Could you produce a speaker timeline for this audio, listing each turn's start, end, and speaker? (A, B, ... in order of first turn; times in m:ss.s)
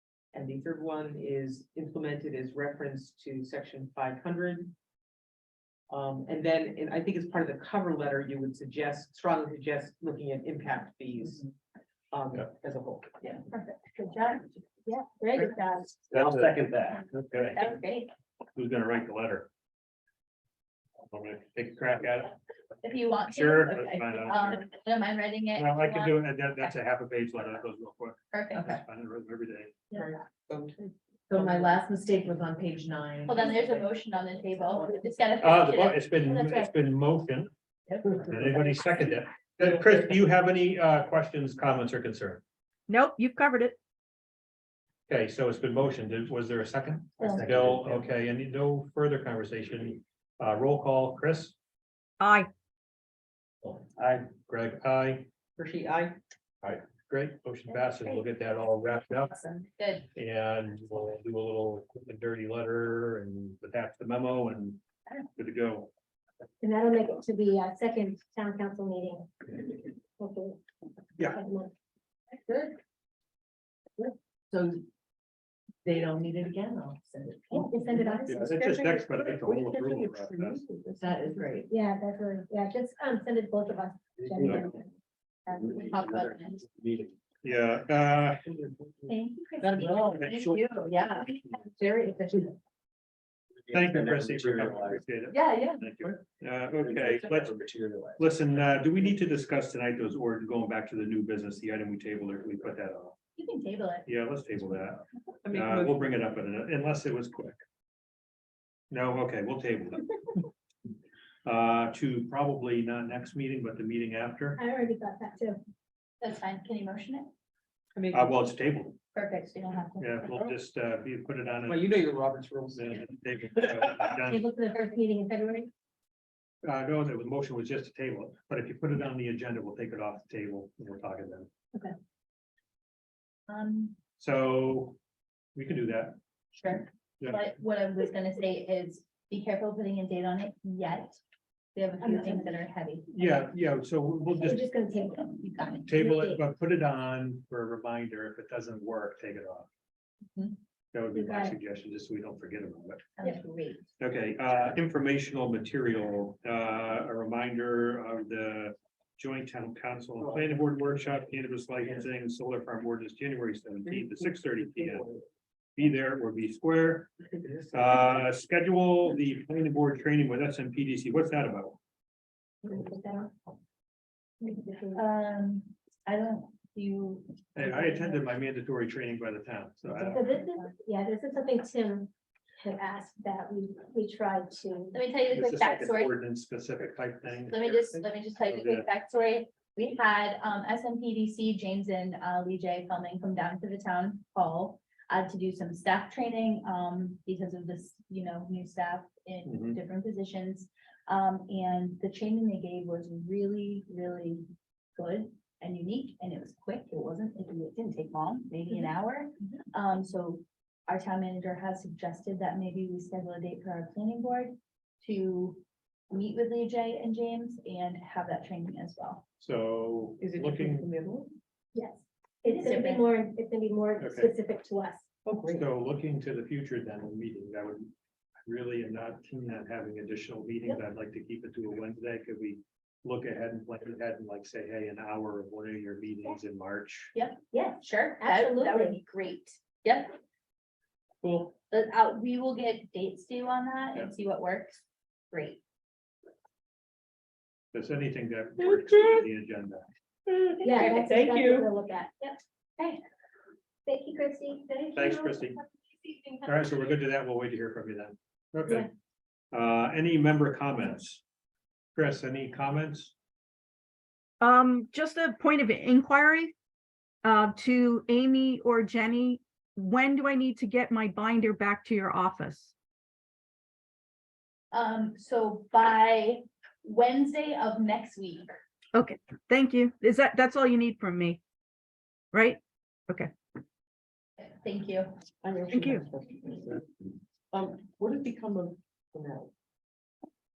0:00.3-0:04.7 A
0:05.9-0:11.5 A
0:12.1-0:13.4 A
0:13.2-0:14.6 B
0:14.8-0:15.9 C
0:16.1-0:17.6 D
0:16.1-0:17.4 E
0:17.5-0:18.1 B
0:18.5-0:19.5 D
0:21.0-0:22.4 D
0:22.8-0:26.7 B
0:23.3-0:24.6 D
0:25.6-0:29.8 D
0:28.3-0:28.7 B
0:29.9-0:31.8 A
0:31.3-0:34.0 F
0:33.2-0:36.2 B
0:35.4-0:37.5 D
0:36.3-0:36.7 C
0:37.9-0:38.2 F
0:38.2-0:42.4 D
0:42.9-0:43.8 G
0:45.1-0:51.5 D
0:47.2-0:47.5 B
0:52.2-0:52.5 G
0:53.6-0:55.3 D
0:55.6-0:56.2 A
0:56.6-0:59.3 D
0:57.7-0:58.2 B
0:59.1-1:00.1 B
1:00.1-1:04.8 D
1:05.4-1:05.9 D
1:06.6-1:10.6 C
1:11.2-1:11.7 C
1:14.0-1:14.8 F
1:15.8-1:18.5 F
1:17.5-1:18.8 C
1:18.3-1:20.6 D
1:18.7-1:21.6 A
1:20.9-1:21.7 F
1:21.7-1:24.8 C
1:24.2-1:24.8 E
1:25.5-1:26.6 B
1:25.6-1:27.1 E
1:27.4-1:28.4 D
1:28.5-1:29.1 A
1:29.1-1:30.7 B
1:29.6-1:32.5 F
1:33.7-1:35.0 E
1:33.7-1:37.6 D
1:35.3-1:35.9 F
1:36.8-1:38.3 E
1:38.2-1:43.1 D
1:43.4-1:44.1 B
1:44.0-1:47.6 D
1:45.4-1:46.2 A
1:48.9-1:50.1 D
1:51.4-1:54.6 D
1:54.6-1:55.6 C
1:56.2-1:57.3 B
1:57.9-1:58.3 A
1:58.1-1:59.0 D
1:59.1-2:00.3 B
2:00.0-2:01.9 D
2:01.6-2:03.1 A
2:02.7-2:04.4 D
2:04.3-2:05.7 C
2:06.6-2:11.5 D
2:13.5-2:14.0 B
2:14.2-2:15.0 D
2:15.6-2:16.2 D
2:16.5-2:21.2 B
2:17.2-2:17.4 D
2:21.7-2:23.5 B
2:22.0-2:22.6 C
2:23.1-2:24.6 D
2:24.3-2:26.4 C
2:24.9-2:25.9 B
2:25.9-2:29.7 D
2:30.9-2:33.0 D
2:31.1-2:31.6 C
2:33.2-2:33.9 B
2:34.0-2:45.1 D
2:43.8-2:45.2 A
2:45.8-2:47.1 D
2:47.4-2:48.1 A
2:47.7-2:51.8 D
2:52.6-2:53.3 C
2:54.4-2:55.0 C
2:54.9-2:58.2 B
2:57.6-3:00.3 D
2:59.9-3:05.0 C
3:00.3-3:00.7 B
3:04.9-3:06.1 B
3:05.3-3:08.9 D
3:07.4-3:39.2 B
3:19.5-3:19.8 D
3:39.4-3:40.9 D
3:40.2-3:41.3 A
3:41.7-3:45.0 C
3:42.4-3:43.1 B
3:44.0-3:44.3 D
3:45.2-3:45.7 A
3:45.5-3:47.9 D
3:48.4-3:57.1 D
3:57.1-4:00.2 B
3:57.5-3:59.0 C
4:01.2-4:01.5 A
4:01.7-4:05.6 B
4:07.7-4:09.8 D
4:10.6-4:12.9 C
4:10.7-4:11.6 A
4:10.8-4:11.0 B
4:13.8-4:15.5 C
4:14.9-4:15.6 D
4:16.4-4:18.9 D
4:19.5-4:21.2 D
4:22.0-4:23.1 D
4:24.4-4:26.5 G
4:27.2-4:32.7 G
4:34.7-4:38.5 B
4:38.9-4:41.4 G
4:42.3-4:43.3 G
4:44.4-4:45.1 B
4:45.4-4:46.8 A
4:45.7-4:46.0 G
4:47.5-4:49.5 A